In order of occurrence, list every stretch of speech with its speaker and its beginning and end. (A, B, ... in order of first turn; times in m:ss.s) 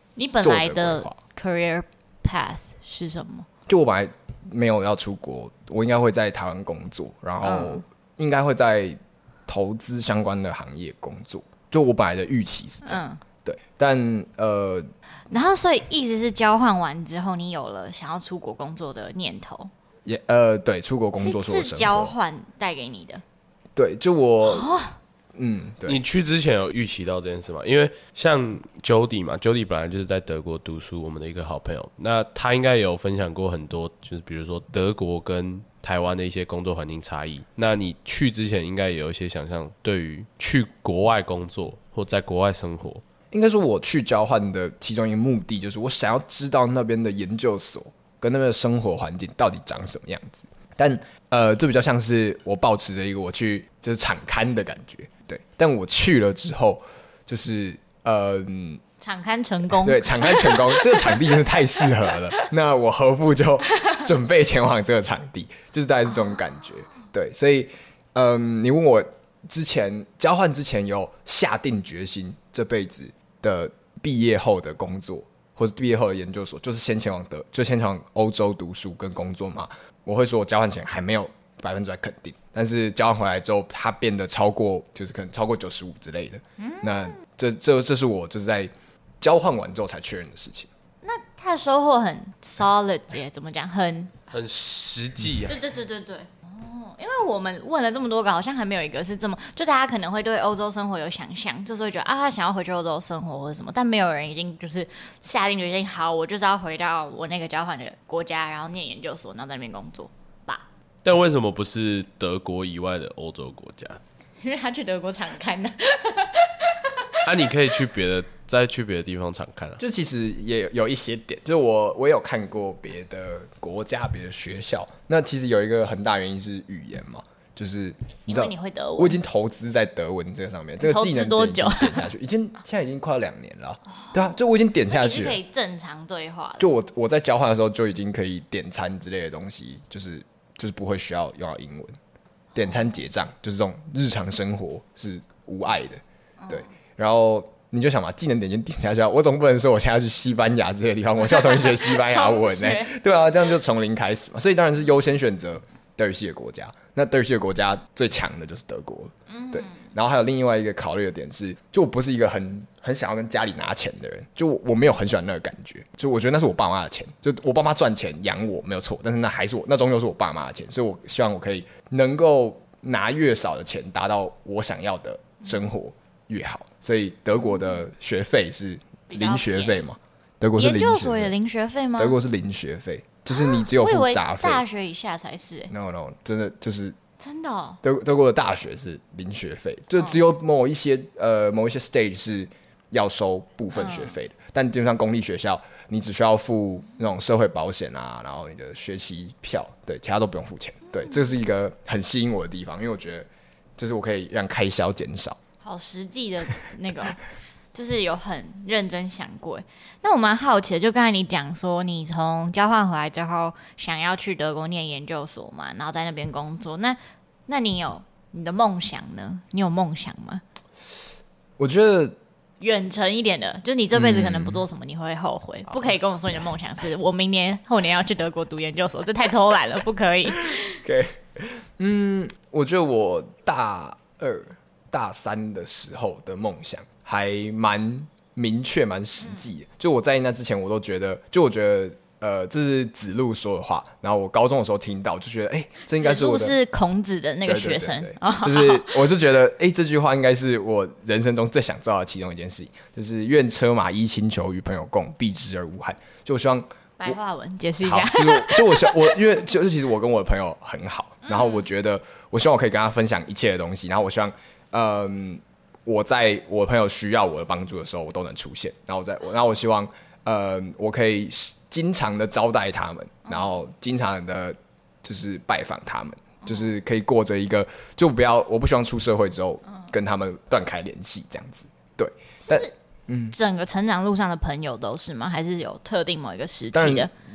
0:00.2-0:03.5 A
0:00.4-0:01.2 B
0:03.7-0:14.9 B
0:07.4-0:07.8 A
0:12.8-0:13.2 A
0:15.3-0:19.7 A
0:20.0-0:22.1 B
0:21.2-0:23.2 A
0:23.8-0:24.7 B
0:24.4-0:25.0 A
0:25.4-0:26.0 B
0:25.9-0:43.0 C
0:43.3-0:58.8 B
0:59.0-1:01.3 A
0:59.8-1:30.7 B
1:26.6-1:27.2 A
1:31.0-1:34.1 A
1:34.3-1:35.6 C
1:35.5-1:50.6 A
1:51.0-1:54.0 C
1:54.4-1:57.1 A
1:57.2-1:59.8 C
1:59.8-2:15.4 B
2:08.3-2:09.2 A
2:10.8-2:12.1 A
2:14.9-2:16.7 A
2:16.6-2:22.0 B
2:22.6-3:01.3 B
2:31.3-2:32.9 A
2:39.3-2:39.8 A
2:59.1-2:59.9 A
3:00.6-3:02.2 A
3:02.0-3:04.6 B
3:03.3-3:05.7 A
3:05.7-3:07.0 B
3:07.2-3:07.8 A
3:07.8-3:25.4 B
3:13.7-3:14.1 A
3:20.9-3:21.2 A
3:25.6-3:27.2 A
3:27.7-3:40.4 A
3:41.6-3:42.2 B
3:42.6-3:50.8 A
3:43.9-3:44.6 B
3:50.5-4:06.6 B
4:06.0-4:09.0 A
4:07.4-4:17.2 B
4:17.0-4:19.1 A
4:17.8-4:43.4 B
4:21.3-4:21.6 A
4:33.3-4:33.5 A
4:42.4-4:42.7 A
4:43.3-4:47.1 A
4:46.7-4:47.1 B